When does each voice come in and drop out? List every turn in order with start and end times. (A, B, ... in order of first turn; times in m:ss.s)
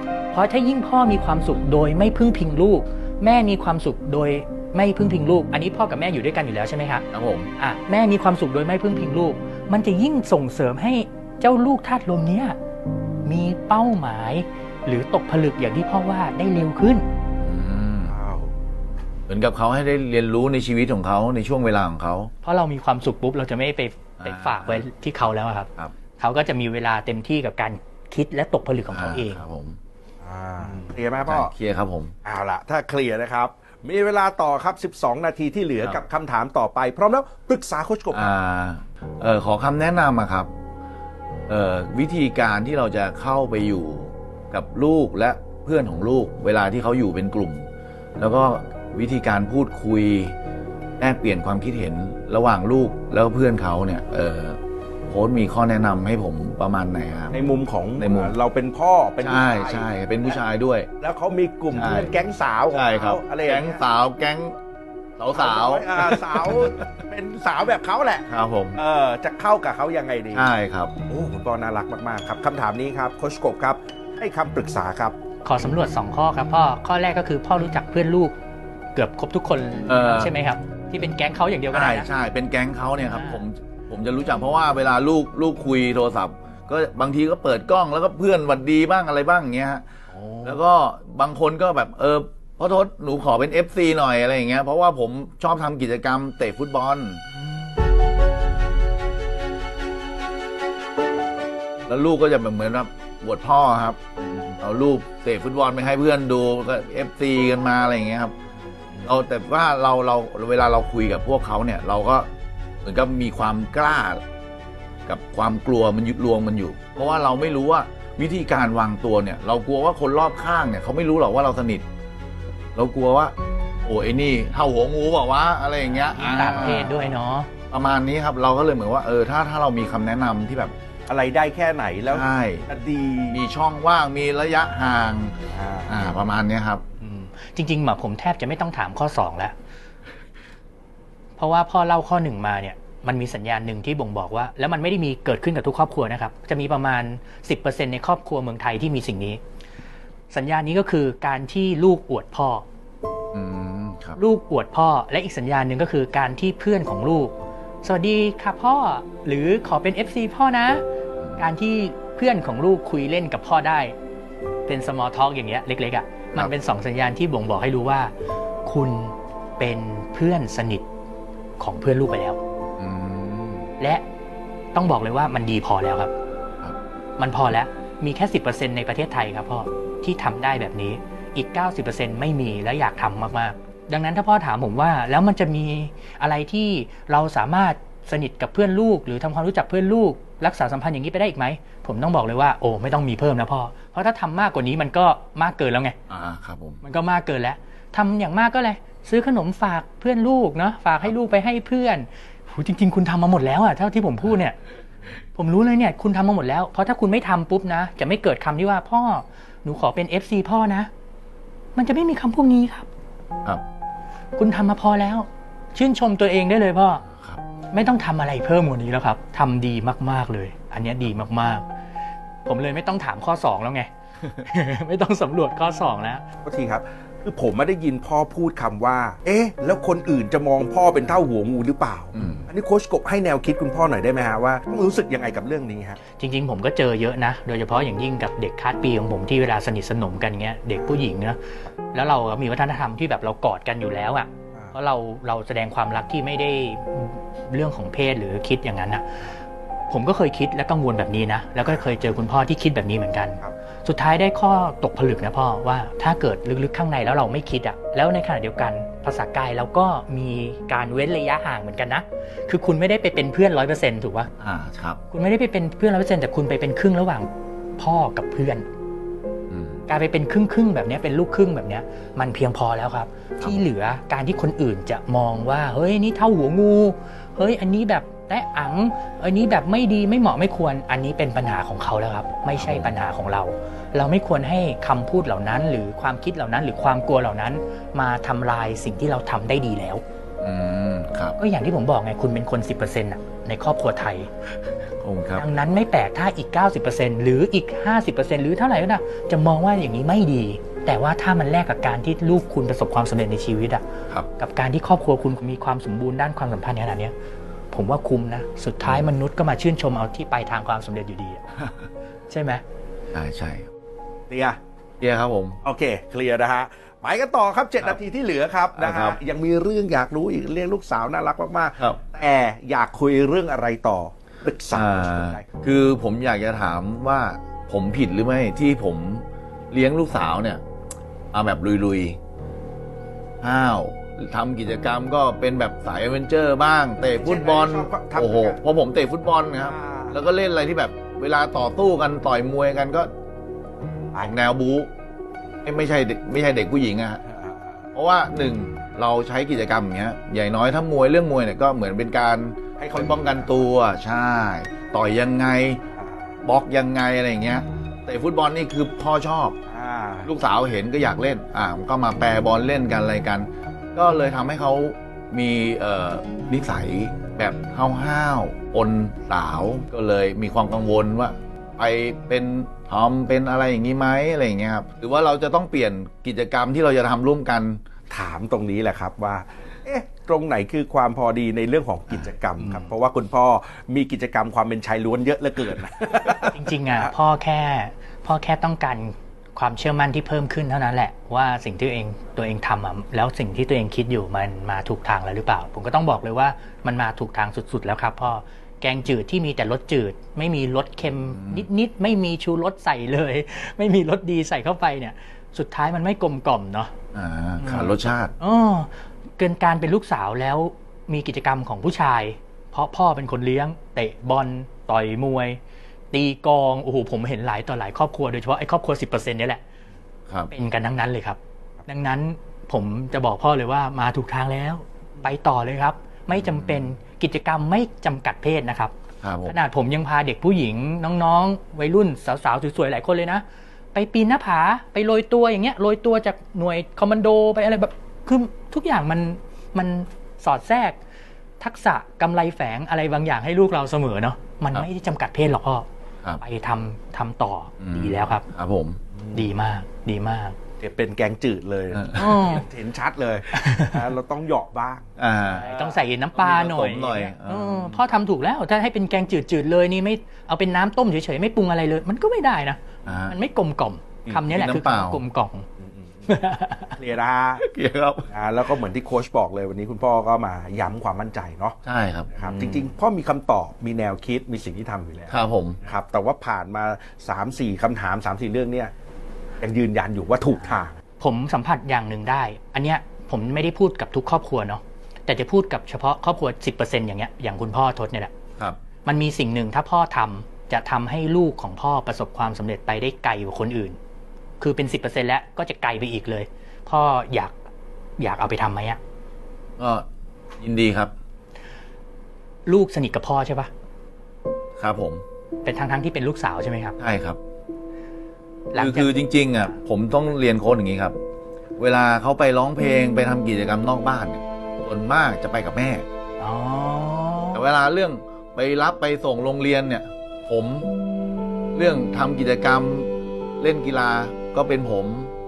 0:00.3-0:07.1 A
0:07.1-0:07.5 B
0:07.6-0:12.6 A
0:13.2-0:17.1 A
0:17.4-0:18.2 B
0:18.0-0:18.5 C
0:19.3-0:22.3 B
0:22.4-0:29.4 A
0:24.2-0:24.9 B
0:28.9-0:29.8 B
0:30.2-0:31.5 C
0:31.2-0:32.2 B
0:32.2-0:38.3 C
0:38.1-0:40.5 B
0:41.5-0:50.4 B
0:51.0-0:57.4 B
0:57.3-1:00.4 C
0:58.0-0:58.4 B
0:59.2-1:00.9 B
1:01.0-1:03.8 C
1:01.7-1:02.1 B
1:02.7-1:04.6 B
1:05.2-1:06.9 B
1:05.3-1:10.5 C
1:08.3-1:08.8 B
1:10.3-1:10.9 B
1:11.1-1:15.2 C
1:15.4-1:18.4 A
1:19.0-1:22.1 A
1:19.9-1:20.3 B
1:21.7-1:29.8 B
1:23.1-1:23.4 A
1:30.2-1:30.4 C
1:30.4-1:37.2 B
1:41.9-1:48.3 B
1:49.0-1:52.3 B
1:52.8-1:54.2 B
1:55.1-2:01.8 B
2:02.8-2:03.3 B
2:03.8-2:07.1 B
2:05.9-2:07.5 A
2:07.7-2:10.7 B
2:11.1-2:13.4 C
2:12.1-2:12.7 B
2:13.3-2:15.4 B
2:15.5-2:16.2 C
2:15.9-2:16.8 B
2:17.0-2:19.6 A
2:21.4-2:29.4 A
2:30.3-2:32.6 A
2:33.3-2:34.2 B
2:34.2-2:40.8 A
2:41.2-2:41.5 B
2:41.4-2:44.0 A
2:44.7-2:48.1 A
2:48.6-2:50.9 A
2:51.6-2:52.4 A
2:52.8-2:53.7 B
2:53.8-2:54.0 A
2:54.7-2:56.1 A
2:57.2-3:16.0 A
3:16.1-3:16.8 B
3:16.8-3:24.6 A
3:25.4-3:30.9 A
3:31.8-3:32.9 A
3:34.4-3:37.0 A
3:37.1-3:37.4 B
3:37.7-3:41.6 A
3:42.5-3:46.2 A
3:46.4-3:56.0 C
3:52.2-3:52.5 B
3:56.2-4:01.4 A
4:01.9-4:09.3 A
4:09.9-4:24.3 A
4:24.4-4:25.0 B
4:25.1-4:28.7 A
4:29.5-4:29.8 B
4:29.9-4:50.0 A
4:42.5-4:42.9 B
4:50.4-4:51.4 B
4:51.4-4:54.3 A
4:55.0-4:55.5 B
4:55.4-5:03.8 A
5:04.4-5:07.1 A
5:07.7-5:11.4 A
5:12.3-5:12.6 A
5:13.1-5:13.7 B
5:14.3-5:14.6 C
5:15.0-5:15.6 B
5:15.6-5:25.5 C
5:18.8-5:19.2 B
5:24.7-5:30.6 B
5:31.3-5:32.2 B
5:33.4-5:43.1 B
5:37.1-5:38.6 C
5:39.6-5:40.2 C
5:44.2-5:44.9 B
5:45.6-5:47.2 B
5:47.3-5:47.8 C
5:47.9-5:55.8 B
5:52.8-5:53.7 C
5:56.0-5:56.4 C
5:56.4-5:59.6 B
5:59.7-6:00.3 C
6:00.2-6:17.8 B
6:18.1-6:27.1 C
6:26.4-6:46.9 A
6:41.3-6:41.7 B
6:47.1-6:48.3 B
6:47.6-6:55.6 A
6:56.1-6:59.6 A
7:00.5-7:08.9 A
7:06.3-7:06.9 B
7:09.2-7:09.6 B
7:09.4-7:13.4 A
7:13.9-7:21.0 A
7:21.6-7:25.9 A
7:26.4-7:28.5 A
7:27.8-7:29.0 B
7:29.2-7:29.5 C
7:29.3-7:30.6 A
7:30.8-7:36.0 C
7:31.9-7:32.4 B
7:32.1-7:32.7 A
7:33.5-7:34.0 A
7:35.2-7:35.7 B
7:35.5-7:45.7 A
7:36.4-7:38.0 B
7:43.1-7:43.4 B
7:44.4-7:45.2 B
7:45.8-7:47.6 C
7:46.3-7:47.0 A
7:47.6-7:48.3 B
7:48.3-7:51.8 C
7:51.8-7:52.3 B
7:52.3-7:58.9 C
7:52.5-7:52.7 A
7:55.3-7:55.8 B
7:59.6-8:01.0 C
8:01.2-8:08.3 A
8:09.0-8:14.0 A
8:14.6-8:17.6 A
8:18.2-8:19.0 A
8:19.8-8:20.1 B
8:20.6-8:21.1 B
8:22.7-8:23.7 A
8:24.8-8:25.2 B
8:25.6-8:27.0 A
8:27.0-8:27.4 B
8:28.7-8:29.2 A
8:28.7-8:31.2 B
8:31.8-8:36.1 B
8:36.4-8:37.7 A
8:37.5-8:40.9 B
8:41.7-8:45.3 B